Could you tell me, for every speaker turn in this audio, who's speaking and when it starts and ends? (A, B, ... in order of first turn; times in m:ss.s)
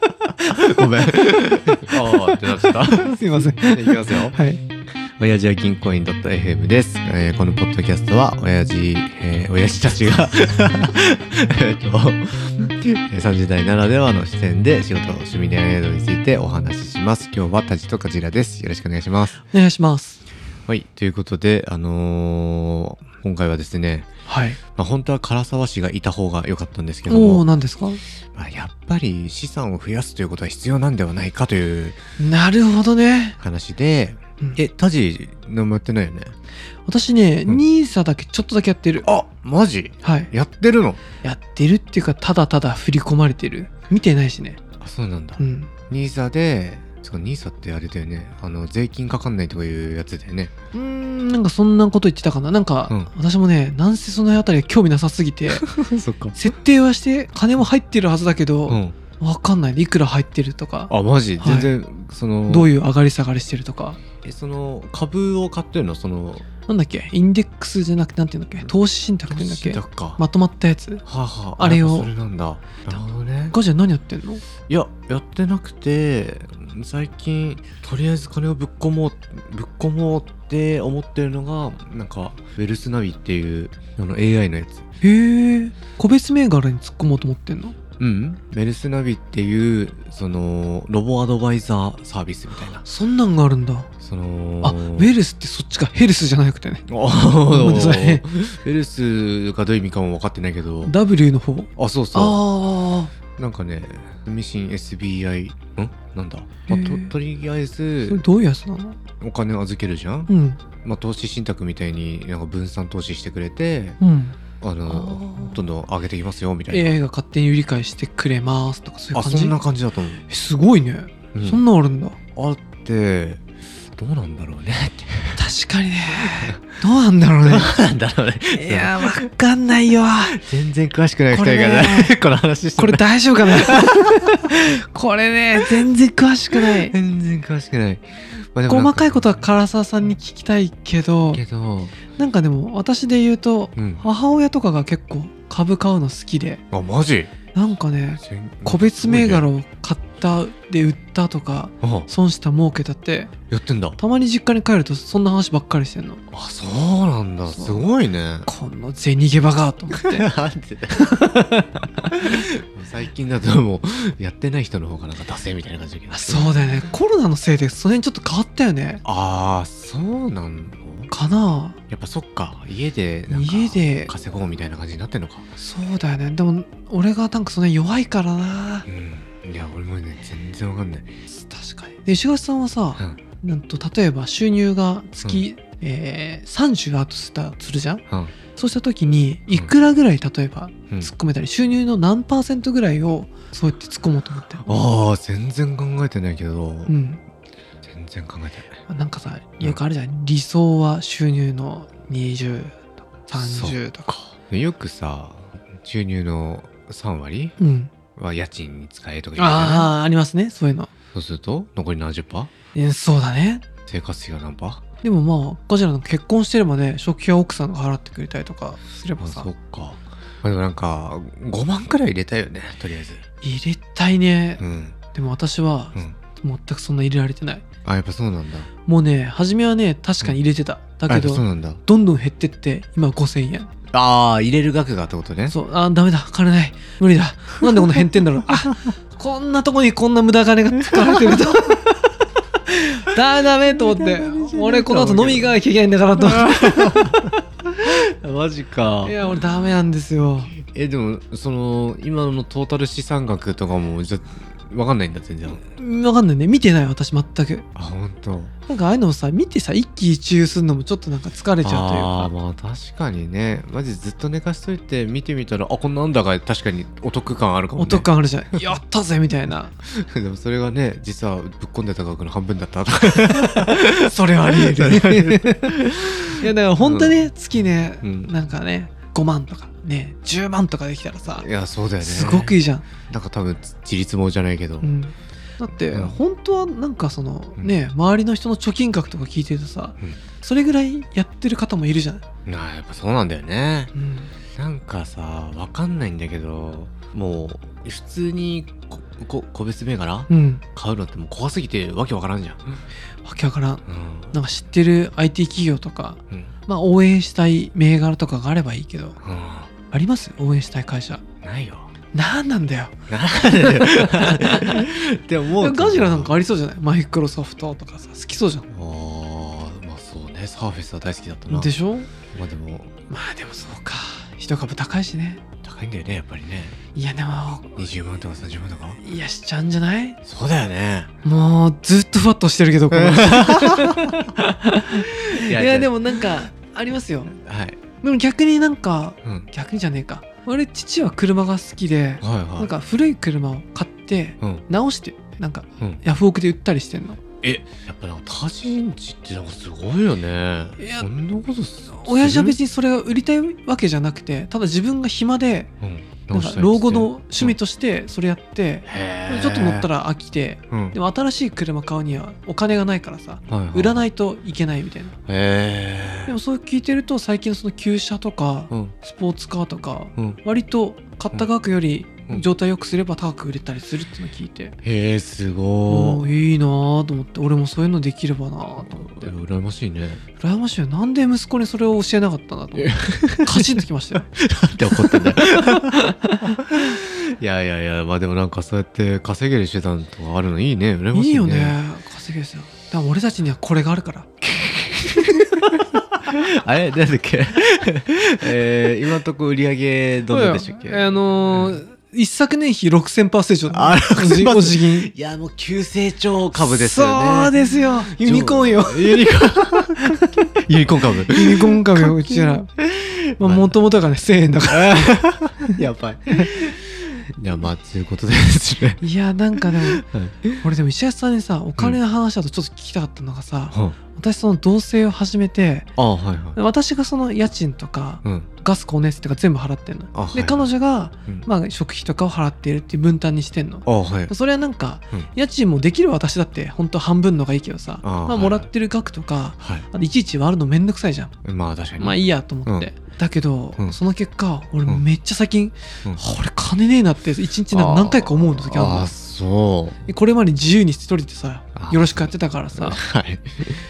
0:00.5-0:04.4 A
0:02.3-0:04.6 B
0:05.2-0:19.4 A
0:19.4-0:20.2 B
0:20.7-0:24.1 A
0:24.3-0:24.6 B
0:24.8-0:27.4 A
0:27.1-0:28.0 B
0:28.4-0:32.0 A
0:32.2-0:33.4 B
0:33.4-0:36.3 A
0:36.9-0:39.1 B
0:39.0-0:41.0 A
0:40.0-0:40.3 B
0:41.2-0:44.6 B
0:44.8-0:50.5 A
0:45.4-0:45.7 B
0:50.7-0:55.7 B
0:55.5-0:56.4 A
0:56.4-1:01.7 B
0:58.7-0:59.0 A
1:00.9-1:02.7 A
1:02.5-1:04.0 B
1:04.2-1:06.5 A
1:06.7-1:11.0 B
1:09.3-1:10.2 A
1:11.1-1:13.6 A
1:11.6-1:12.1 B
1:13.5-1:14.4 B
1:14.7-1:24.9 A
1:25.0-1:27.8 B
1:28.0-1:32.8 A
1:32.8-1:33.9 B
1:34.0-1:35.1 A
1:34.6-1:36.8 B
1:36.9-1:41.0 A
1:37.5-1:38.2 B
1:40.8-1:43.1 B
1:41.8-1:42.4 A
1:43.4-1:48.2 A
1:46.7-1:47.1 B
1:48.1-1:49.0 B
1:49.2-1:50.3 A
1:50.3-1:50.6 B
1:50.8-1:54.0 A
1:54.0-1:54.4 B
1:54.6-1:57.0 A
1:54.9-1:55.6 B
1:56.7-1:59.6 B
1:59.1-2:00.2 A
2:00.3-2:02.2 B
2:01.3-2:01.6 A
2:02.4-2:05.4 A
2:05.4-2:07.7 B
2:06.2-2:06.6 A
2:07.4-2:09.2 A
2:08.5-2:10.4 B
2:10.3-2:14.5 A
2:11.3-2:12.2 B
2:12.8-2:16.9 B
2:16.6-2:19.3 A
2:18.7-2:21.4 B
2:21.3-2:22.0 A
2:22.1-2:26.6 B
2:23.8-2:24.0 A
2:26.7-2:27.3 A
2:27.5-2:33.3 B
2:28.2-2:29.5 A
2:31.8-2:32.1 A
2:33.5-2:34.0 A
2:34.0-2:36.2 B
2:36.3-2:38.5 A
2:37.5-2:37.9 B
2:38.5-2:40.3 B
2:39.9-2:41.1 A
2:41.0-2:42.4 B
2:42.1-2:46.9 A
2:46.1-2:49.0 B
2:49.0-2:51.1 A
2:51.1-2:51.8 B
2:51.9-2:55.5 A
2:53.3-2:54.1 B
2:55.6-2:58.9 B
2:58.9-3:01.2 A
3:01.3-3:08.0 B
3:08.1-3:08.4 A
3:08.5-3:14.7 B
3:14.7-3:16.9 A
3:16.9-3:17.2 B
3:17.8-3:18.7 A
3:18.9-3:24.3 B
3:23.4-3:23.8 A
3:24.5-3:27.6 A
3:27.6-3:27.9 B
3:28.2-3:29.9 A
3:29.4-3:30.9 B
3:31.1-3:32.5 A
3:32.7-3:33.6 B
3:33.9-3:34.8 A
3:35.0-3:39.5 B
3:39.2-3:43.2 A
3:43.4-3:47.6 B
3:44.6-3:45.0 A
3:47.8-3:48.7 A
3:48.9-3:53.7 B
3:51.1-3:51.8 A
3:53.9-3:55.6 A
3:55.5-4:02.0 B
3:57.6-3:58.3 A
4:00.9-4:01.5 A
4:02.7-4:07.2 B
4:03.4-4:05.6 A
4:06.2-4:09.3 A
4:09.0-4:10.5 B
4:10.6-4:15.6 A
4:15.5-4:17.7 B
4:17.8-4:18.5 A
4:18.7-4:22.3 B
4:21.6-4:28.1 A
4:27.8-4:29.7 B
4:29.8-4:37.2 A
4:33.4-4:41.5 B
4:38.0-4:38.3 A
4:41.3-4:44.9 A
4:42.0-4:42.9 B
4:44.8-4:52.2 B
4:45.9-4:46.2 A
4:52.5-4:53.9 A
4:53.9-4:54.3 B
4:54.5-5:02.8 A
5:00.3-5:00.6 B
5:03.2-5:09.2 B
5:03.9-5:04.4 A
5:09.2-5:09.7 A
5:09.9-5:11.2 B
5:11.4-5:11.9 A
5:12.1-5:13.0 B
5:13.1-5:16.4 A
5:13.6-5:14.9 B
5:15.6-5:18.7 B
5:18.7-5:21.7 A
5:21.5-5:22.1 B
5:22.3-5:22.9 A
5:23.1-5:25.4 B
5:25.6-5:26.8 A
5:27.0-5:27.9 B
5:27.8-5:29.0 A
5:29.0-5:30.2 B
5:30.3-5:31.1 A
5:31.2-5:37.3 B
5:32.9-5:34.2 A
5:35.3-5:36.4 A
5:37.3-5:37.8 A
5:38.0-5:47.2 B
5:39.2-5:39.5 A
5:42.2-5:42.7 A
5:47.4-5:52.6 A
5:50.8-5:51.1 B
5:51.9-5:55.7 B
5:55.8-5:57.6 A
5:56.3-6:05.2 B
5:58.9-5:59.9 A
6:00.7-6:01.0 A
6:03.5-6:04.1 A
6:05.3-6:06.3 A
6:06.3-6:14.8 B
6:14.8-6:16.3 A
6:15.9-6:19.3 B
6:19.0-6:20.2 A
6:20.4-6:24.3 B
6:22.8-6:23.8 A
6:24.3-6:26.0 A
6:25.0-6:26.6 B
6:26.6-6:31.8 A
6:31.1-6:34.3 B
6:34.4-6:41.8 A
6:40.3-6:45.1 B
6:43.7-6:47.6 A
6:46.6-6:49.2 B
6:48.1-6:53.8 A
6:50.0-6:50.4 B
6:51.3-6:52.7 B
6:53.4-6:55.8 B
6:54.7-6:59.0 A
6:59.0-7:00.0 B
6:59.5-7:00.6 A
7:00.6-7:05.9 B
7:03.7-7:04.0 A
7:06.0-7:06.6 A
7:06.6-7:21.3 B
7:08.2-7:08.5 A
7:10.1-7:10.7 A
7:13.9-7:14.3 A
7:18.0-7:18.7 A
7:19.6-7:19.9 A
7:21.4-7:22.9 A
7:22.0-7:29.1 B
7:27.7-7:30.0 A
7:30.1-7:33.0 B
7:31.8-7:33.8 A